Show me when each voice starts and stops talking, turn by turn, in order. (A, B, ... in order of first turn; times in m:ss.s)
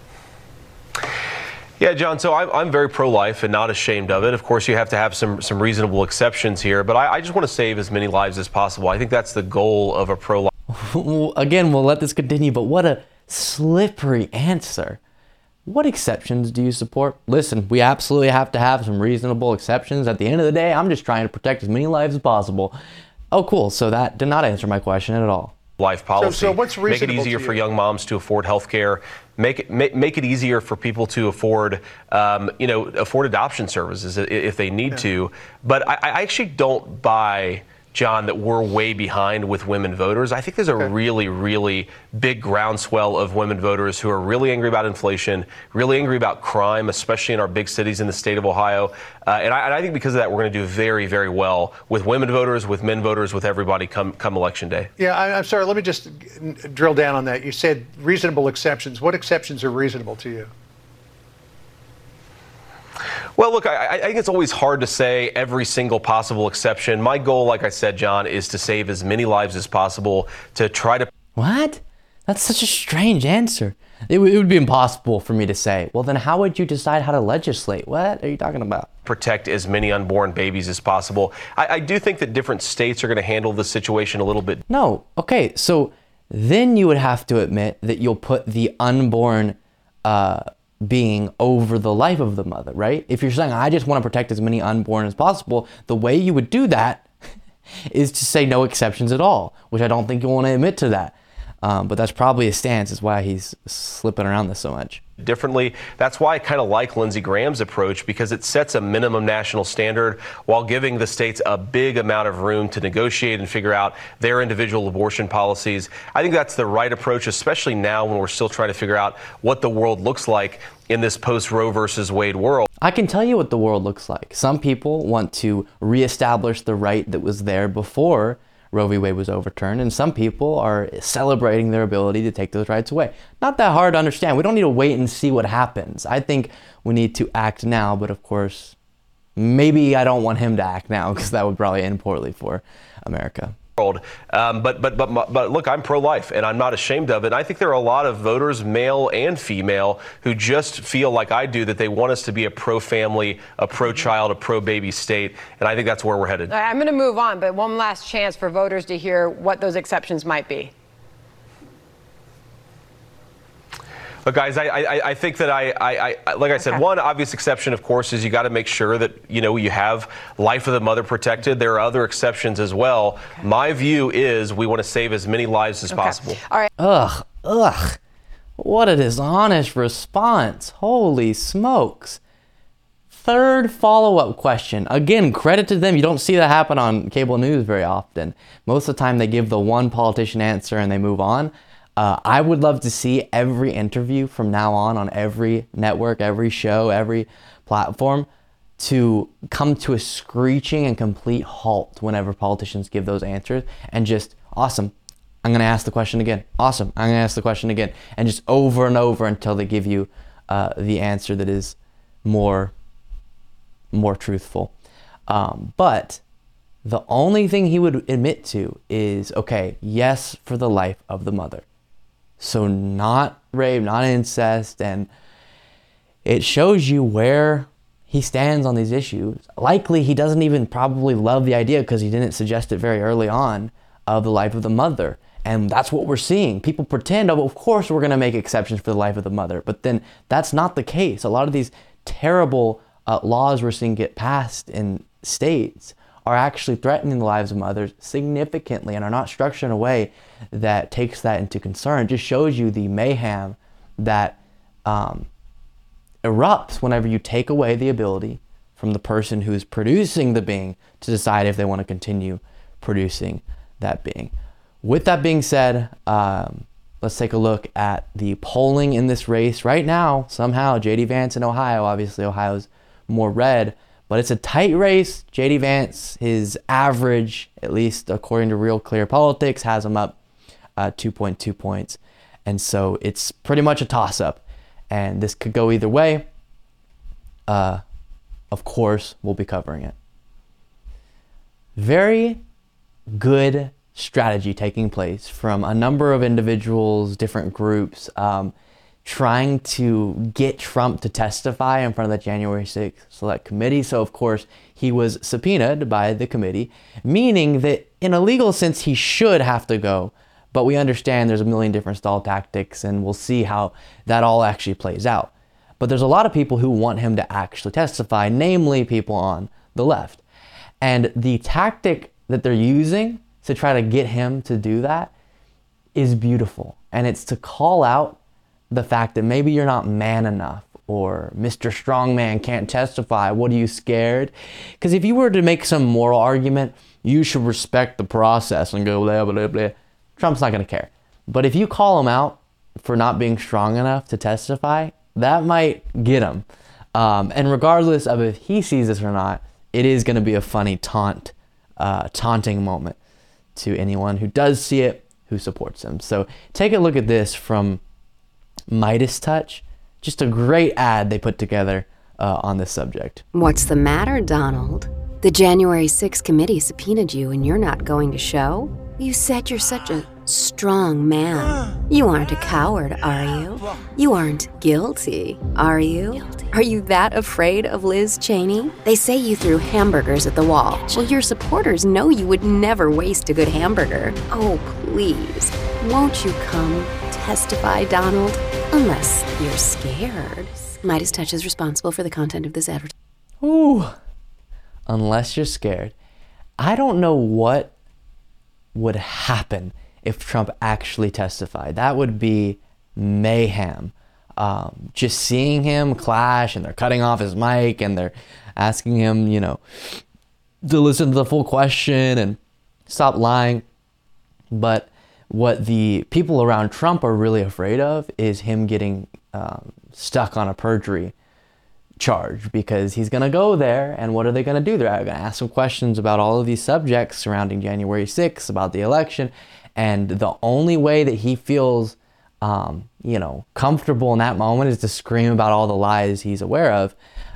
0:01.8-0:10.5 A
0:10.7-0:15.0 B
0:15.6-0:22.8 B
0:23.3-0:25.5 B
0:25.8-0:54.9 A
0:26.2-0:27.6 C
0:55.0-1:00.5 C
1:03.4-1:11.1 A
1:11.4-1:18.9 B
1:19.0-1:24.6 A
1:24.7-1:37.1 B
1:37.9-1:45.0 B
1:45.2-2:02.6 A
2:02.8-2:18.7 B
2:19.4-2:23.5 B
2:23.8-2:36.5 A
2:36.5-2:40.7 D
2:44.2-2:56.4 A
2:55.9-2:56.6 D
2:56.8-2:58.0 B
2:58.6-3:02.2 B
3:03.1-3:18.3 B
3:18.8-3:24.9 B
3:25.4-3:32.7 B
3:33.9-3:34.7 B
3:35.3-3:36.2 B
3:36.8-3:41.6 B
3:42.4-3:45.1 B
3:46.2-4:15.3 B
4:16.2-4:40.2 B
4:40.8-4:46.2 B
4:47.5-4:47.8 B
4:48.5-4:49.9 B
4:51.8-4:52.4 B
4:53.1-4:58.5 B
4:59.0-5:20.2 B
5:20.8-5:25.1 B
5:25.9-5:28.2 B
5:28.7-5:53.0 B
5:53.5-5:57.8 B
5:58.7-6:03.2 B
6:03.3-6:32.9 E
6:33.4-6:34.0 B
6:34.9-6:35.9 B
6:36.6-6:37.7 B
6:38.7-6:50.0 B
6:50.6-6:52.4 B
6:52.9-6:53.6 B
6:54.5-7:01.1 B
7:02.0-7:16.9 B